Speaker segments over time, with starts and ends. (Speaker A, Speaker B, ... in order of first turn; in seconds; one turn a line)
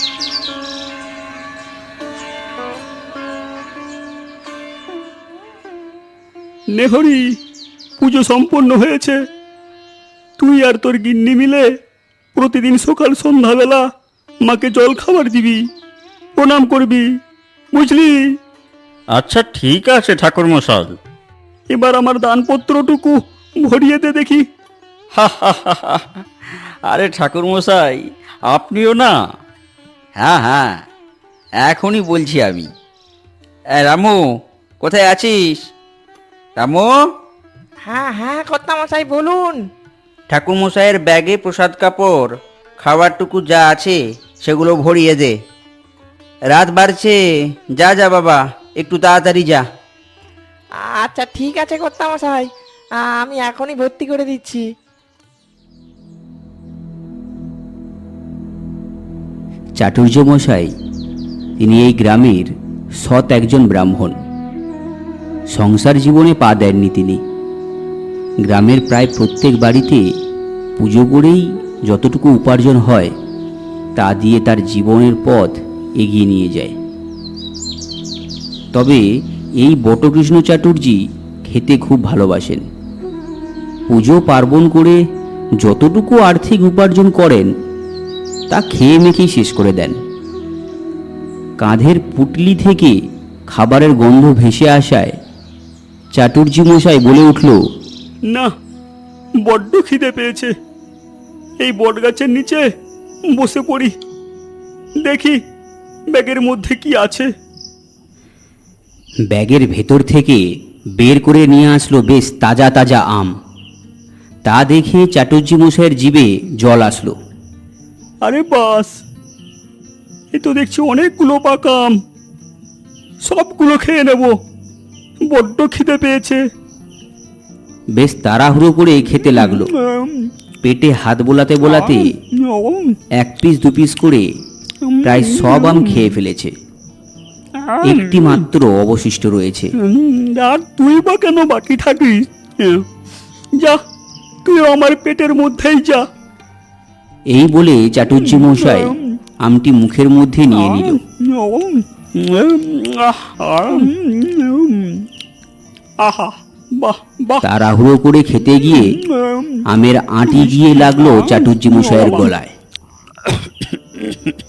Speaker A: 6.7-7.4
Speaker A: 8.0-9.2
Speaker A: 10.4-11.7
Speaker A: 12.4-13.8
Speaker A: 14.4-15.6
Speaker A: 16.4-17.1
Speaker A: 17.7-18.2
Speaker B: 19.1-21.0
Speaker A: 21.7-24.4
Speaker B: 25.1-26.1
Speaker B: 26.9-29.2
Speaker B: 30.2-30.8
Speaker B: 31.6-32.7
Speaker B: 33.7-34.3
Speaker B: 34.8-35.6
Speaker B: 36.6-37.1
Speaker C: 37.9-39.6
Speaker B: 40.3-45.4
Speaker B: 46.5-47.2
Speaker B: 47.7-49.7
Speaker C: 50.9-52.5
Speaker C: 53.0-54.7
Speaker D: 59.8-60.7
Speaker D: 61.6-64.2
Speaker D: 65.5-67.2
Speaker D: 68.5-70.0
Speaker D: 70.8-73.1
Speaker D: 74.0-76.8
Speaker D: 78.7-79.0
Speaker D: 79.6-82.7
Speaker D: 83.9-85.0
Speaker D: 85.6-87.5
Speaker D: 88.5-90.0
Speaker D: 91.6-93.0
Speaker D: 93.5-95.2
Speaker D: 96.1-97.6
Speaker A: 99.5-100.5
Speaker A: 101.6-102.7
Speaker A: 103.3-103.9
Speaker A: 105.0-105.4
Speaker A: 106.1-107.3
Speaker D: 109.3-110.4
Speaker D: 111.0-113.4
Speaker D: 114.5-117.2
Speaker A: 118.2-119.0
Speaker A: 120.3-122.0
Speaker A: 123.2-124.4
Speaker A: 125.3-126.4
Speaker D: 128.0-129.7
Speaker A: 129.4-130.3
Speaker D: 130.6-132.2
Speaker A: 131.7-133.0
Speaker D: 133.2-134.3
Speaker A: 134.8-136.1
Speaker D: 135.0-136.5
Speaker A: 137.6-138.3
Speaker D: 137.8-139.7
Speaker A: 139.8-142.9
Speaker A: 144.4-146.1
Speaker D: 147.3-151.0
Speaker A: 148.3-149.1
Speaker A: 150.7-155.1
Speaker A: 156.0-157.5
Speaker D: 157.4-159.0
Speaker A: 159.0-159.6
Speaker D: 159.7-162.5
Speaker A: 161.0-162.3